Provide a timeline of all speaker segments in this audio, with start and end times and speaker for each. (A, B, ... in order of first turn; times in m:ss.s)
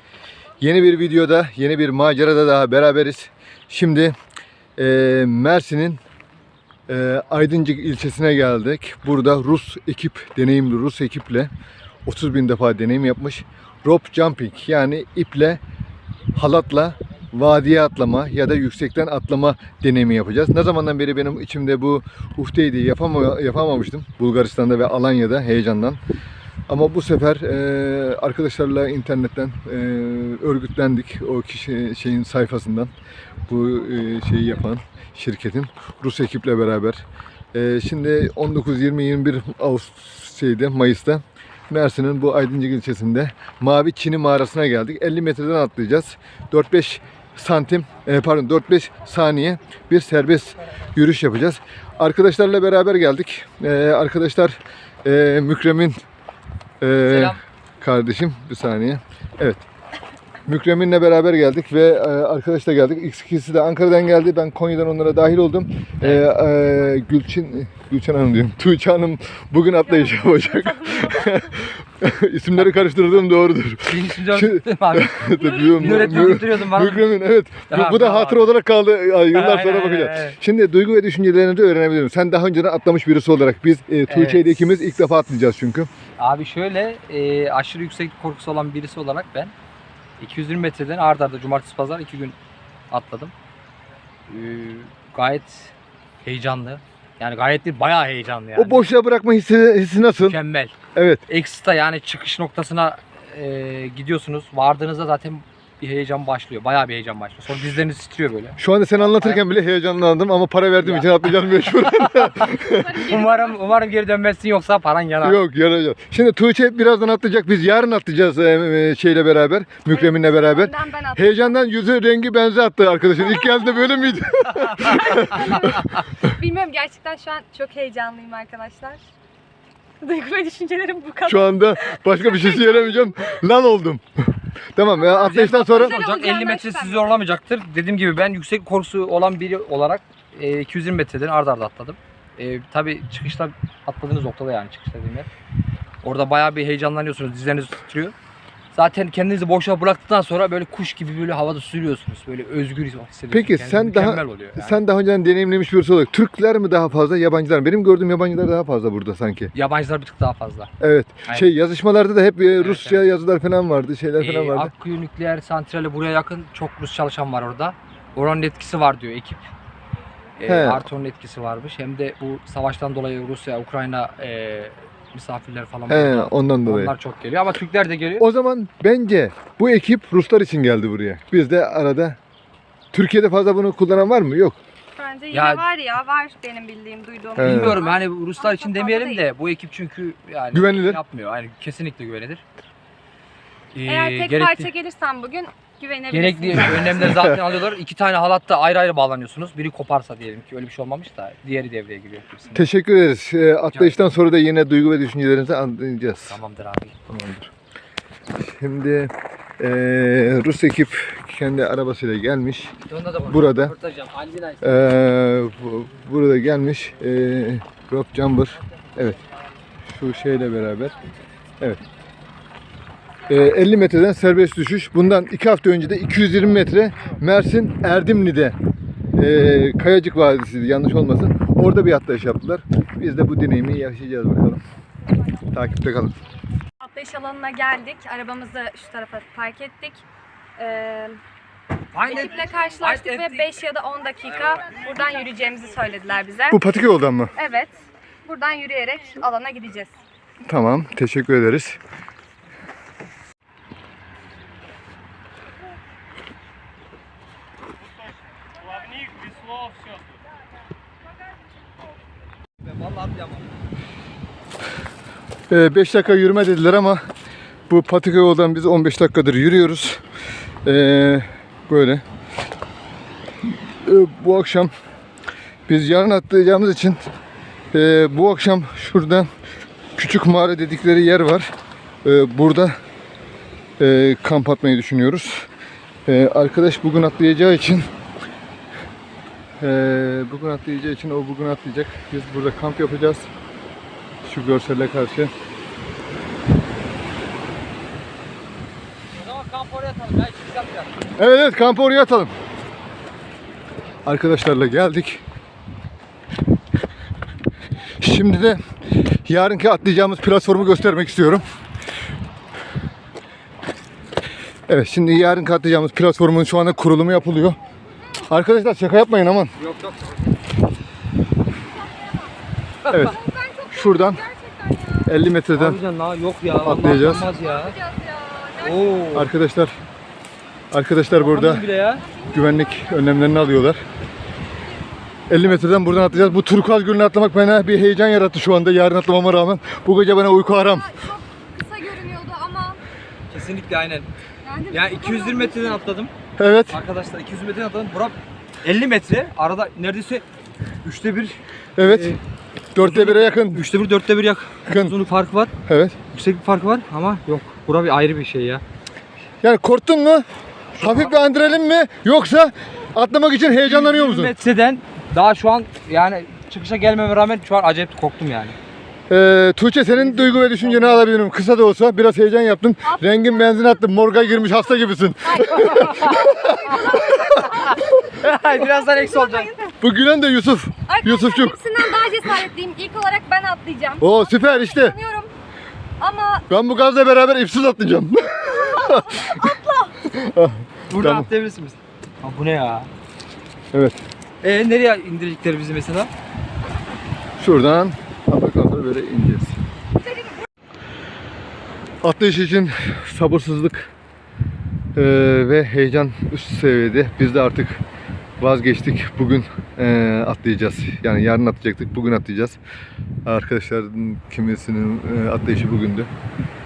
0:00.6-0:04.2 A
0:04.8-0:06.0 A
0:06.9-0:11.5 A
0:12.1-0:15.6 A
0:16.4-0:26.0 A
0:26.7-0:32.9 A
0:33.5-0:56.0 A
0:56.8-0:59.6 A
0:57.0-0:57.4 B
1:00.5-1:25.9 A
1:06.0-1:06.3 B
1:12.6-1:12.8 B
1:13.9-1:17.1 B
1:17.7-1:18.5 B
1:19.3-1:20.4 B
1:24.1-1:24.7 B
1:26.2-1:29.5 B
1:30.2-1:32.4 B
1:32.9-1:33.3 B
1:34.3-1:38.9 B
1:38.6-1:40.4 A
1:40.2-1:40.8 B
1:41.0-1:41.2 A
1:41.3-1:49.4 B
1:48.6-1:53.1 A
1:50.8-1:55.4 B
1:52.4-1:53.7 C
1:55.2-2:05.9 A
1:59.9-2:01.5 C
2:03.3-2:03.7 C
2:04.8-2:09.0 C
2:10.0-2:13.4 C
2:11.2-2:16.0 A
2:15.0-2:17.1 C
2:15.2-2:25.3 B
2:26.0-2:28.2 B
2:28.7-2:34.8 B
2:33.3-2:39.5 A
2:39.5-2:40.7 B
2:40.8-2:44.7 A
2:42.6-2:43.0 B
2:44.2-2:49.5 B
2:50.4-2:58.2 B
2:50.5-2:50.8 A
2:55.9-2:56.9 A
2:58.2-3:02.2 A
3:02.9-3:04.6 A
3:05.0-3:09.2 C
3:05.3-3:05.6 B
3:07.4-3:07.8 A
3:07.4-3:12.4 B
3:10.5-3:11.0 A
3:13.8-3:14.7 B
3:13.9-3:17.3 C
3:16.1-3:22.7 B
3:22.5-3:26.4 A
3:23.7-3:24.1 B
3:26.3-3:27.0 B
3:27.1-3:27.5 A
3:28.4-3:32.8 A
3:32.8-3:34.7 B
3:33.3-3:33.8 A
3:34.6-3:39.2 A
3:39.9-3:41.0 A
3:43.3-3:48.6 A
3:49.2-3:54.6 A
3:55.5-3:56.2 A
3:56.8-4:00.0 C
4:00.6-4:01.2 C
4:01.9-4:03.5 B
4:02.0-4:06.6 C
4:04.3-4:04.6 B
4:06.5-4:07.3 A
4:07.4-4:09.9 C
4:10.5-4:11.8 A
4:22.6-4:23.4 B
4:25.5-4:27.0 A
4:27.7-4:30.0 A
4:30.6-4:32.0 A
4:33.6-4:34.7 A
4:35.7-4:37.0 A
4:37.7-4:39.3 A
4:40.0-4:41.5 A
4:42.0-4:42.8 A
4:43.8-4:45.5 A
4:46.1-4:47.9 A
4:49.6-4:53.3 A
4:54.2-4:55.3 A
4:59.1-5:01.0 B
5:01.2-5:02.3 A
5:04.1-5:05.2 A
5:08.0-5:08.6 A
5:09.2-5:11.4 A
5:14.7-5:17.6 A
5:18.2-5:19.5 A
5:19.6-5:20.3 B
5:21.9-5:22.3 C
5:22.8-5:23.2 B
5:22.9-5:23.2 A
5:23.0-5:25.2 C
5:23.7-5:24.2 A
5:25.0-5:25.8 A
5:25.5-5:27.8 B
5:26.6-5:27.3 A
5:27.2-5:29.1 C
5:28.6-5:29.3 B
5:29.1-5:29.7 A
5:30.7-5:31.7 A
5:31.1-5:32.0 B
5:32.0-5:33.2 C
5:32.3-5:33.8 A
5:35.3-5:40.9 A
5:40.6-5:42.8 C
5:43.3-5:44.1 B
5:44.4-5:45.8 C
5:44.7-5:46.1 B
5:46.4-5:46.8 A
5:46.7-5:50.2 B
5:50.8-5:52.2 B
5:51.8-5:52.2 A
5:52.8-5:53.7 A
5:52.8-5:55.5 B
5:54.7-5:55.0 A
5:55.6-5:56.0 A
5:56.1-5:58.6 B
5:59.4-6:00.2 A
6:00.8-6:04.3 A
6:00.8-6:01.4 B
6:03.5-6:08.6 B
6:09.1-6:17.8 A
6:09.9-6:11.0 B
6:12.9-6:13.6 C
6:15.3-6:19.8 C
6:15.6-6:16.2 B
6:16.7-6:19.5 B
6:19.8-6:22.4 A
6:20.9-6:25.3 C
6:24.0-6:25.0 A
6:26.0-6:26.5 C
6:26.5-6:31.3 A
6:28.5-6:29.9 C
6:30.9-6:32.9 B
6:33.7-6:34.0 A
6:34.4-6:36.1 B
6:37.4-6:39.6 A
6:40.0-6:40.4 C
6:42.0-6:43.9 A
6:45.0-6:47.8 A
6:48.4-6:52.6 A
6:53.2-6:56.1 A